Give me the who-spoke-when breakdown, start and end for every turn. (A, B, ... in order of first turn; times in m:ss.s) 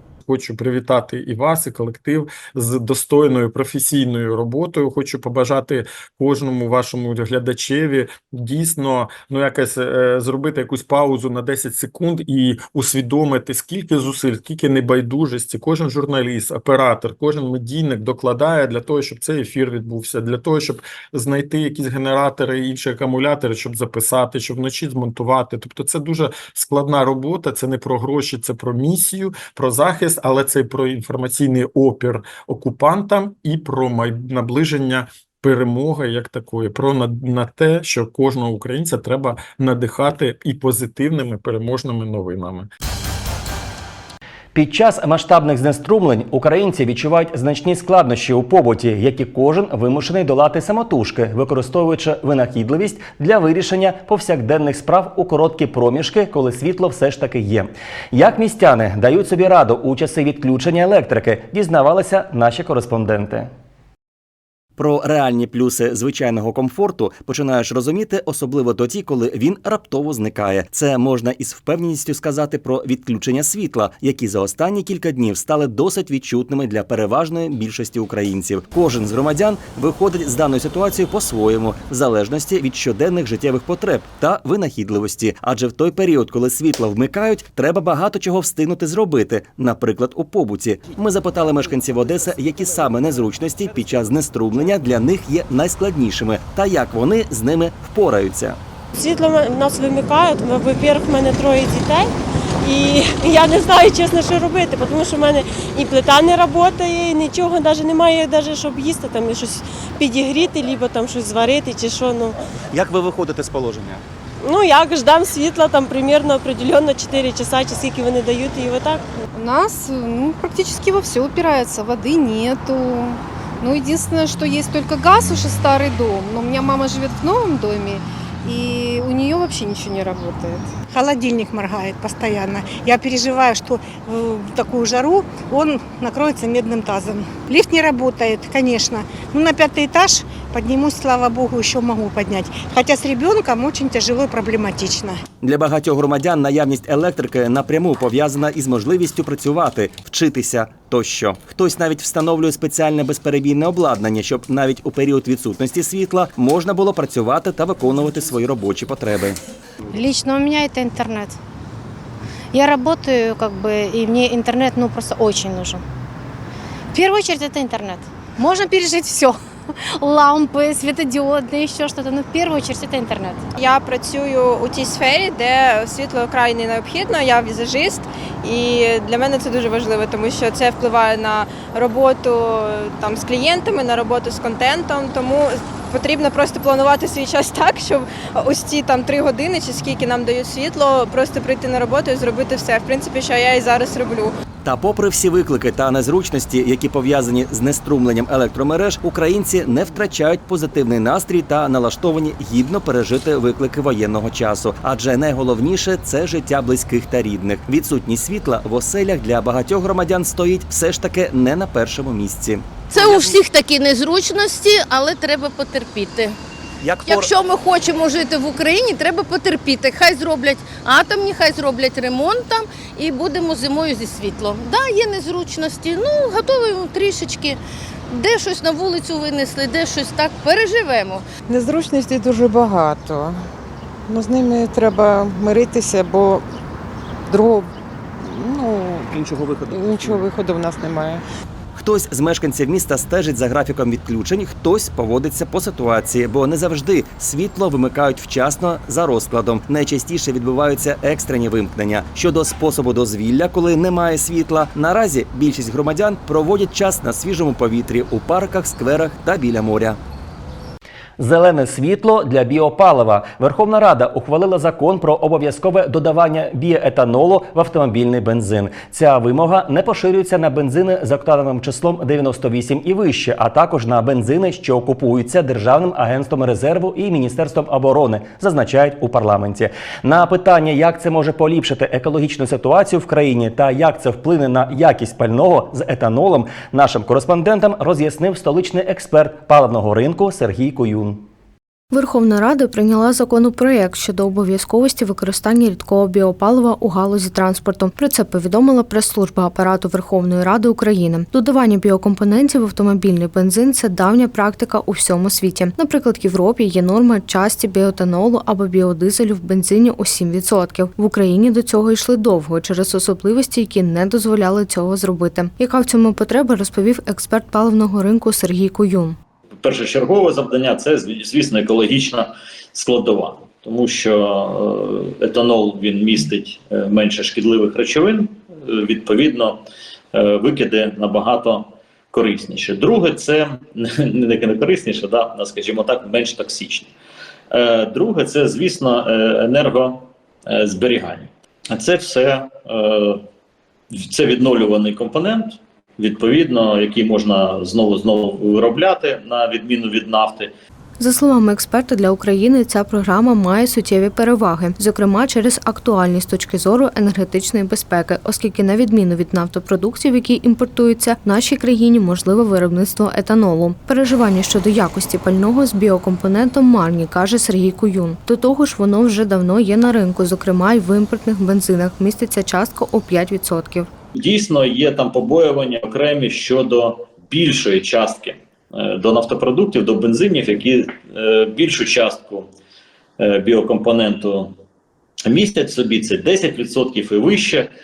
0:00.2-0:42.7 A
0:44.5-1:03.5 B
1:04.8-1:38.6 B
1:38.9-1:52.4 C
1:52.7-1:54.0 B
1:54.4-1:59.0 C
1:59.3-2:10.7 D
2:10.9-2:25.2 E
2:25.4-2:39.4 B
2:39.9-2:41.4 F
2:42.5-2:45.8 F
2:46.9-2:49.4 F
2:50.0-2:53.4 F
2:53.6-2:58.0 G
2:58.5-3:14.3 G
3:14.6-3:33.4 B
3:32.9-3:36.3 H
3:36.8-3:37.3 B
3:37.1-3:47.6 H
3:48.1-3:51.2 H
3:51.5-3:53.4 I
3:54.1-3:56.4 I
3:57.3-3:59.1 I
3:59.1-4:00.2 B
3:59.7-4:01.2 I
4:01.8-4:20.0 B
4:21.2-4:51.2 B
4:51.9-5:19.2 J
5:19.6-5:29.6 K
5:30.1-5:36.9 K
5:37.5-5:43.2 K
5:43.9-5:50.5 K
5:51.0-6:13.9 J
6:14.1-6:22.5 K
6:23.2-6:24.5 K
6:25.2-6:27.7 K